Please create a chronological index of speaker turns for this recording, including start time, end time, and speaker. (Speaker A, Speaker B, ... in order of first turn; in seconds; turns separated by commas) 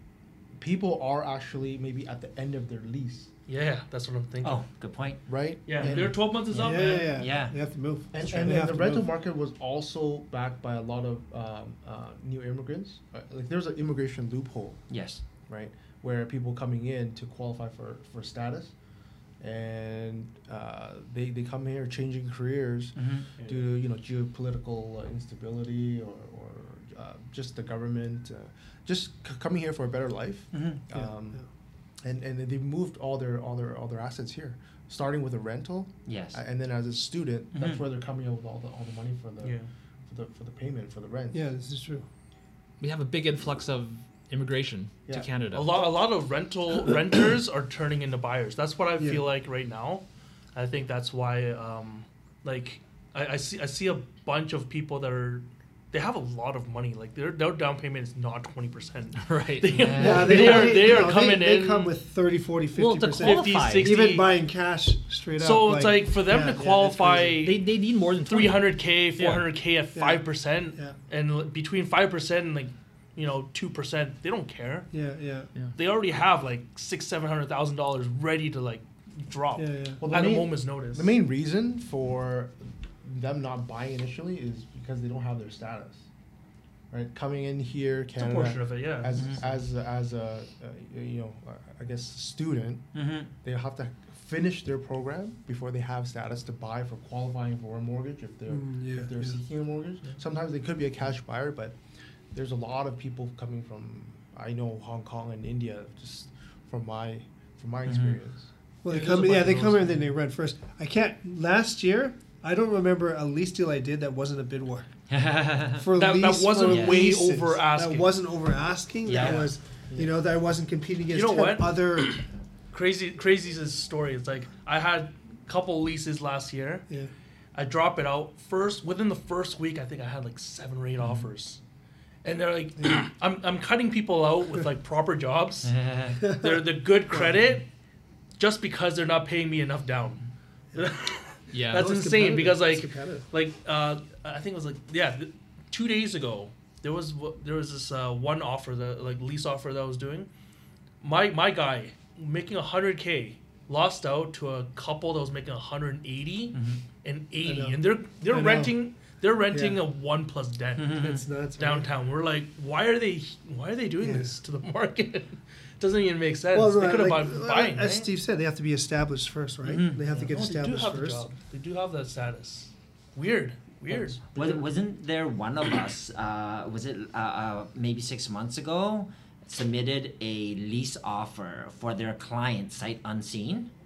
Speaker A: 0.6-3.3, Speaker B: 3.5-4.6, Speaker C: 4.4-7.6, Speaker A: 5.3-6.1, Speaker B: 5.7-7.2, Speaker D: 6.6-9.1, Speaker A: 8.1-14.8, Speaker C: 14.9-15.2, Speaker A: 15.5-18.7, Speaker A: 19.4-31.4, Speaker C: 22.9-23.3, Speaker B: 23.4-23.7, Speaker C: 30.5-30.8, Speaker A: 32.0-41.5, Speaker C: 36.0-36.4, Speaker C: 37.5-37.8, Speaker B: 39.4-39.7, Speaker D: 41.3-42.0, Speaker E: 42.8-45.8, Speaker B: 45.5-61.9, Speaker D: 49.0-49.2, Speaker E: 59.2-59.9, Speaker C: 59.7-61.0, Speaker D: 59.9-67.4, Speaker E: 62.7-64.0, Speaker B: 63.2-64.3, Speaker B: 65.3-67.6, Speaker E: 67.4-69.5, Speaker B: 68.2-74.9, Speaker D: 69.9-71.0, Speaker D: 74.9-75.5, Speaker B: 75.7-81.1, Speaker D: 79.5-80.0, Speaker A: 80.0-86.0, Speaker A: 86.9-92.9, Speaker B: 88.2-89.2, Speaker C: 89.2-89.4, Speaker C: 92.9-93.3, Speaker A: 93.4-101.8, Speaker D: 98.5-99.3, Speaker A: 102.3-108.5, Speaker C: 107.8-108.2, Speaker D: 108.8-114.9, Speaker B: 108.9-110.0, Speaker C: 115.1-115.9, Speaker D: 115.8-122.2, Speaker B: 115.9-118.2, Speaker C: 116.7-117.0, Speaker C: 119.0-119.5, Speaker B: 121.1-121.8, Speaker B: 122.7-126.8, Speaker B: 127.5-131.6, Speaker B: 132.2-137.7, Speaker C: 135.6-136.2, Speaker D: 136.2-136.5, Speaker B: 138.4-150.3, Speaker E: 141.5-141.9, Speaker D: 141.7-143.2, Speaker B: 151.0-168.1, Speaker C: 156.5-156.8, Speaker D: 157.4-158.7, Speaker D: 159.5-159.8, Speaker C: 160.8-161.2, Speaker D: 160.9-161.9, Speaker D: 164.0-164.3, Speaker D: 166.5-171.2, Speaker C: 169.6-170.0, Speaker B: 170.1-174.6, Speaker C: 174.3-183.7